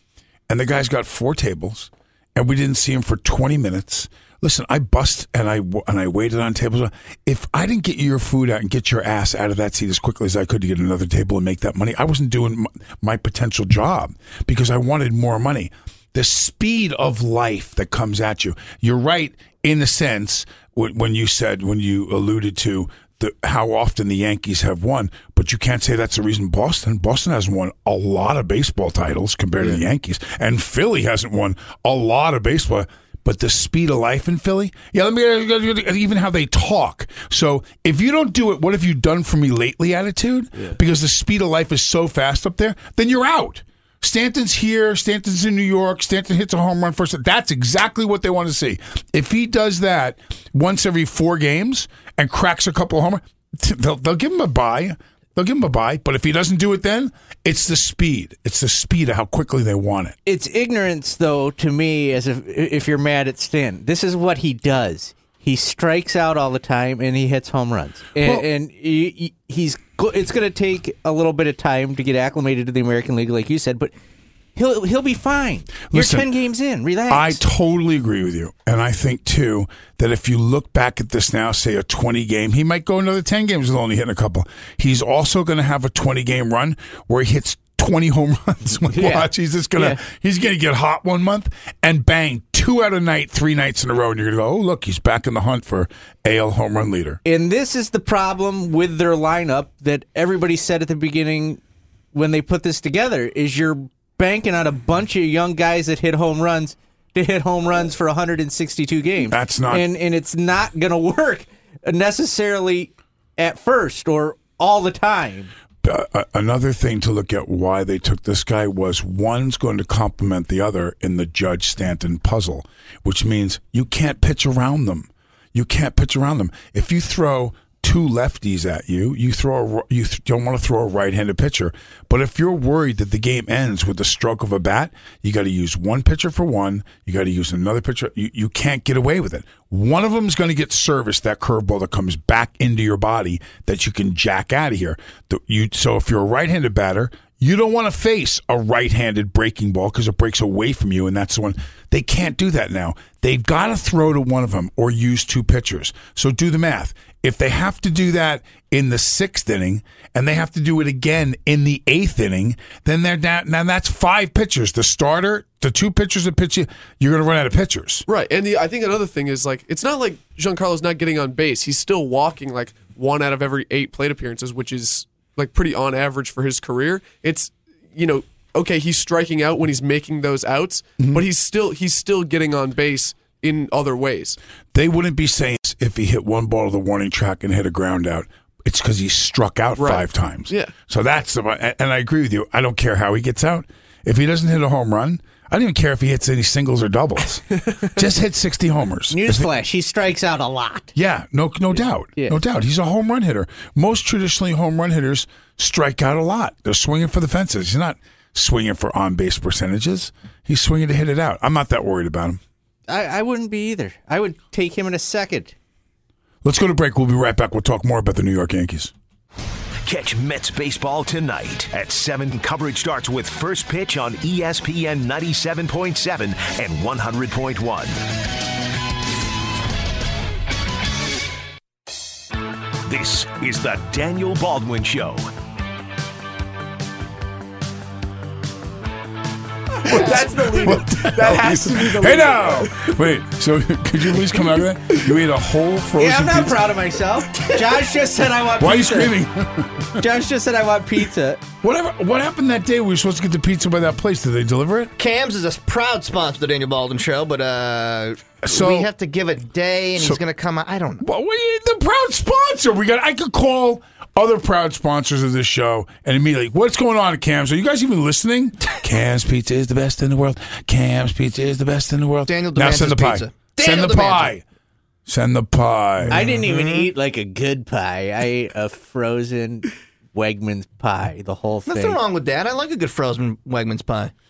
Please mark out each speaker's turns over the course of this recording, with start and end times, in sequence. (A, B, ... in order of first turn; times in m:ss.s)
0:00.5-1:00.2 A
1:00.2-1:13.9 B
1:08.2-1:08.4 A
1:14.6-1:17.4 B
1:15.9-1:16.3 A
1:17.1-1:37.2 A
1:28.9-1:30.0 B
1:37.2-1:41.6 B
1:42.1-1:55.5 B
1:49.3-1:49.9 A
1:55.8-2:48.0 A
2:48.1-3:04.4 C
3:01.0-3:01.2 A
3:04.7-3:19.5 A
3:09.8-3:10.7 C
3:19.1-3:20.9 B
3:20.9-3:32.4 A
3:32.9-3:35.5 B
3:36.4-3:38.9 A
3:39.8-3:48.0 D
3:52.8-3:55.3 D
3:59.8-4:02.8 C
3:59.8-4:06.7 A
4:06.0-4:09.1 B
4:08.6-4:10.0 A
4:10.0-4:11.4 B
4:11.6-4:14.9 A
4:15.0-4:21.0 E
4:18.4-4:18.9 A
4:21.0-4:34.4 A
4:32.3-4:34.3 E
4:35.0-4:36.2 A
4:36.1-4:36.9 E
4:36.1-4:42.0 B
4:41.7-4:44.1 E